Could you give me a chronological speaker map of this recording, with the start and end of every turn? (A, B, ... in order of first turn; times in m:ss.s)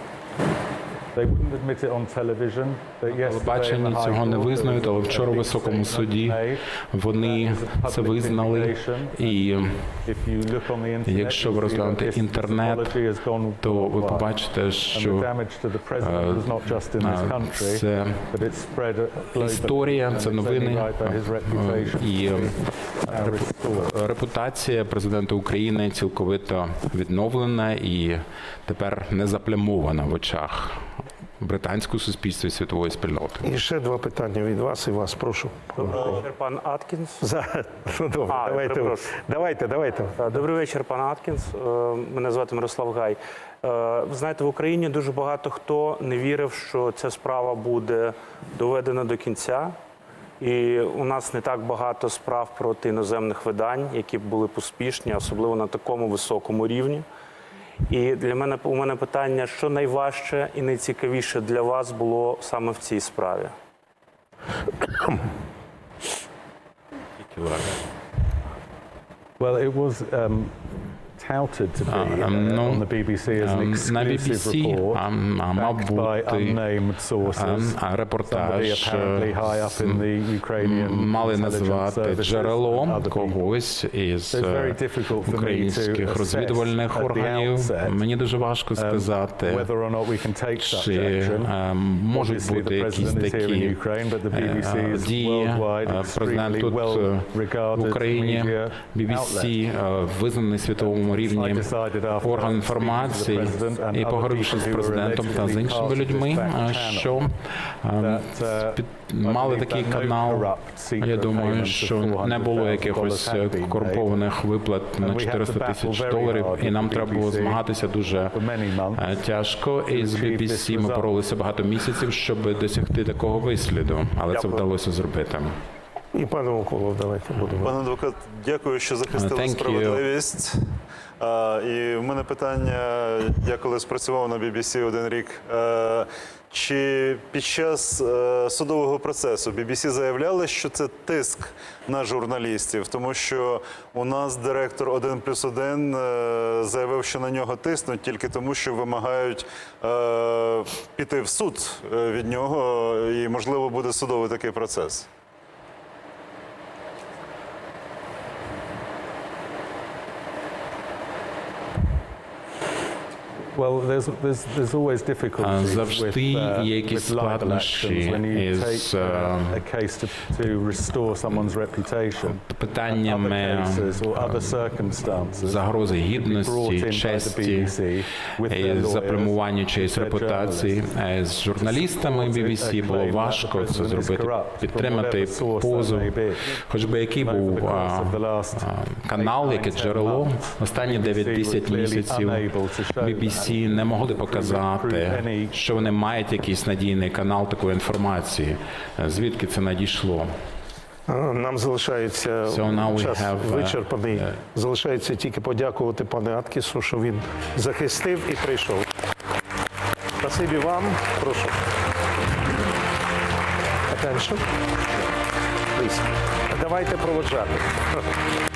0:01.1-0:14.4 A
0:03.1-0:10.1 B
0:11.0-0:13.0 B
0:13.6-0:15.3 B
0:14.9-0:24.0 A
0:16.0-0:18.4 B
0:19.3-0:33.4 B
0:33.4-0:36.2 C
0:35.9-0:37.2 D
0:37.2-0:40.2 C
0:38.3-0:39.1 D
0:40.2-0:49.8 D
0:50.4-0:57.0 D
0:57.9-1:03.5 D
1:07.2-1:07.8 B
1:09.4-1:23.4 A
1:11.9-1:16.7 B
1:17.2-1:29.7 B
1:24.3-1:28.0 A
1:28.7-1:31.6 A
1:30.6-2:05.6 B
1:32.1-1:39.6 A
1:40.8-1:47.2 A
1:48.0-1:54.2 A
1:55.0-1:57.7 A
1:58.3-1:59.2 A
1:59.8-2:01.1 A
2:04.3-2:04.6 E
2:06.1-2:07.8 C
2:07.6-2:35.1 E
2:09.1-2:10.0 B
2:43.5-3:01.0 A
2:45.4-2:49.6 B
2:51.1-2:51.6 B
2:52.2-2:57.9 B
2:58.4-3:20.3 B
3:01.5-3:06.6 A
3:07.2-3:15.7 A
3:21.1-3:28.8 C
3:22.4-3:24.3 B
3:30.2-3:31.6 C
3:33.9-3:34.4 C
3:35.7-3:37.8 C